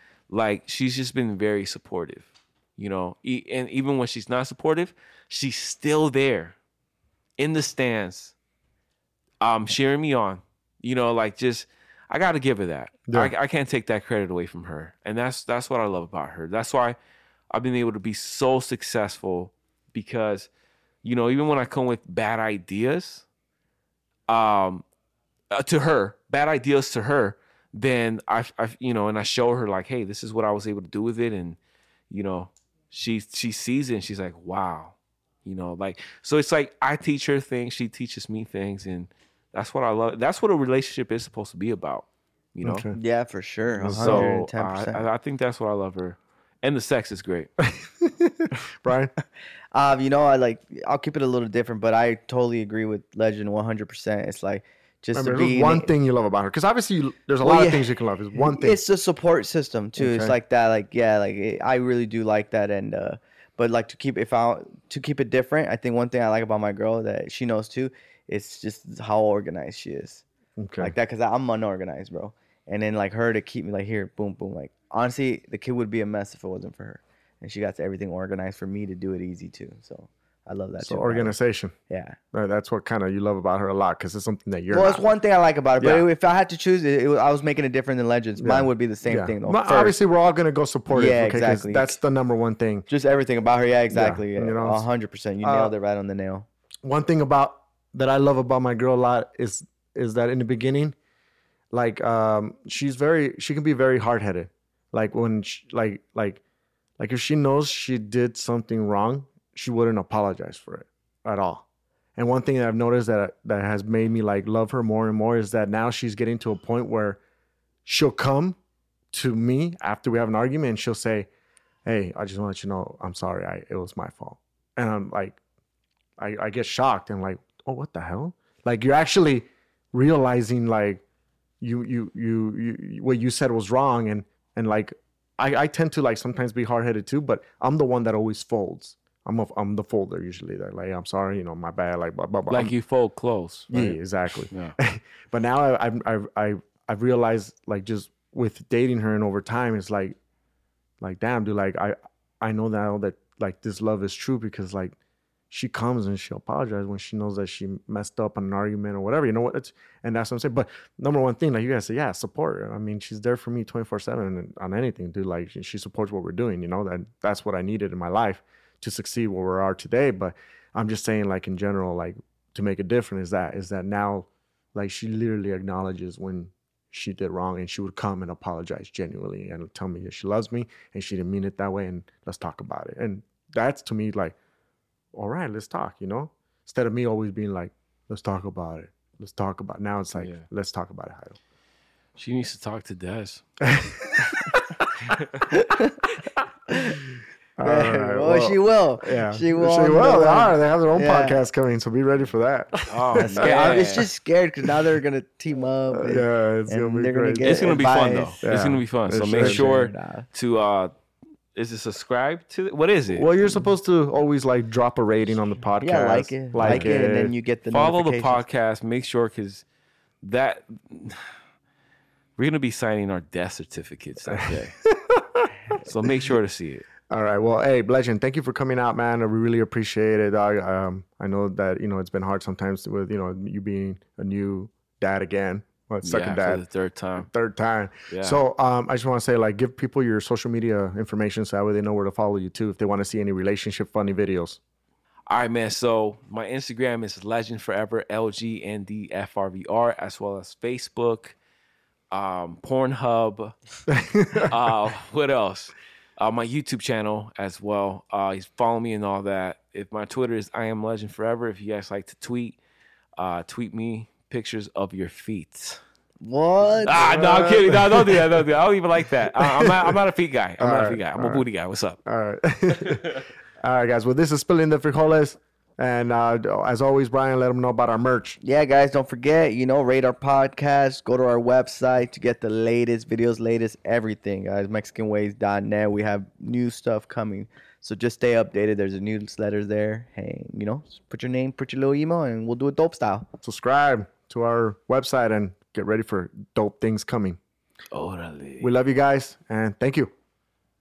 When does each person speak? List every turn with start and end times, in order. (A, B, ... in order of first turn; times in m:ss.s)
0:00.3-0:06.6 A
0:07.4-0:08.3 A
0:09.4-0:17.0 A
0:13.1-0:13.3 B
0:17.5-0:20.5 A
0:21.0-0:23.2 A
0:24.3-0:24.8 A
0:25.5-0:31.6 A
0:32.1-0:42.9 A
0:42.6-0:43.0 B
0:42.9-0:45.1 C
0:43.8-0:44.4 B
0:44.0-0:47.5 A
0:47.6-0:49.1 B
0:49.7-0:55.9 C
0:55.1-0:58.8 B
0:57.4-1:10.2 C
1:00.0-1:00.4 B
1:10.6-1:10.9 B
1:10.8-1:21.4 C
1:20.8-1:21.7 B
1:21.9-1:22.2 C
1:22.3-1:25.0 B
1:24.7-1:30.0 C
1:25.8-1:26.1 B
1:28.4-1:32.9 B
1:30.9-1:32.0 C
1:32.9-1:36.5 C
1:33.9-1:34.8 B
1:35.4-1:35.7 B
1:36.8-1:41.0 B
1:41.7-1:46.4 B
1:47.0-1:51.6 B
1:52.2-1:57.2 B
1:57.9-1:58.6 B
1:59.1-2:01.3 B
2:01.8-2:05.4 B
2:06.2-2:11.0 B
2:11.6-2:22.7 B
2:22.5-2:24.0 A
2:23.7-2:30.2 B
2:31.0-2:35.0 B
2:35.5-3:04.4 B
3:05.1-3:11.4 B
3:10.2-3:10.4 A
3:12.2-3:13.4 A
3:13.6-3:14.8 B
3:15.1-3:15.4 A
3:15.5-3:16.0 C
3:16.7-3:17.0 C
3:17.6-3:24.0 B
3:17.6-3:21.4 C
3:22.9-3:24.1 A
3:23.2-3:28.4 C
3:25.9-3:27.8 B
3:27.4-3:30.9 A
3:28.4-3:29.7 B
3:29.3-3:30.3 C
3:31.6-3:33.6 A
3:33.1-3:37.3 B
3:35.8-3:38.4 C
3:36.6-3:36.9 A
3:37.7-3:39.6 A
3:40.2-3:41.2 A
3:42.4-3:44.8 A
3:44.3-3:45.5 B
3:45.8-3:46.9 A
3:47.1-3:56.6 B
3:56.0-3:57.3 A
3:57.2-4:04.6 B
3:58.1-3:58.4 A
4:05.3-4:11.4 A
4:12.1-4:13.5 A
4:13.9-4:14.5 B
4:14.4-4:22.6 A
4:23.2-4:25.8 A
4:26.2-4:27.0 C
4:26.8-4:32.0 A
4:26.9-4:28.5 B
4:29.2-4:30.0 B
4:30.6-4:31.4 B
4:32.0-4:38.4 B
4:32.8-4:33.2 A
4:38.4-4:53.3 C
4:53.4-4:57.4 B
4:57.9-4:58.7 A
4:58.6-5:00.1 B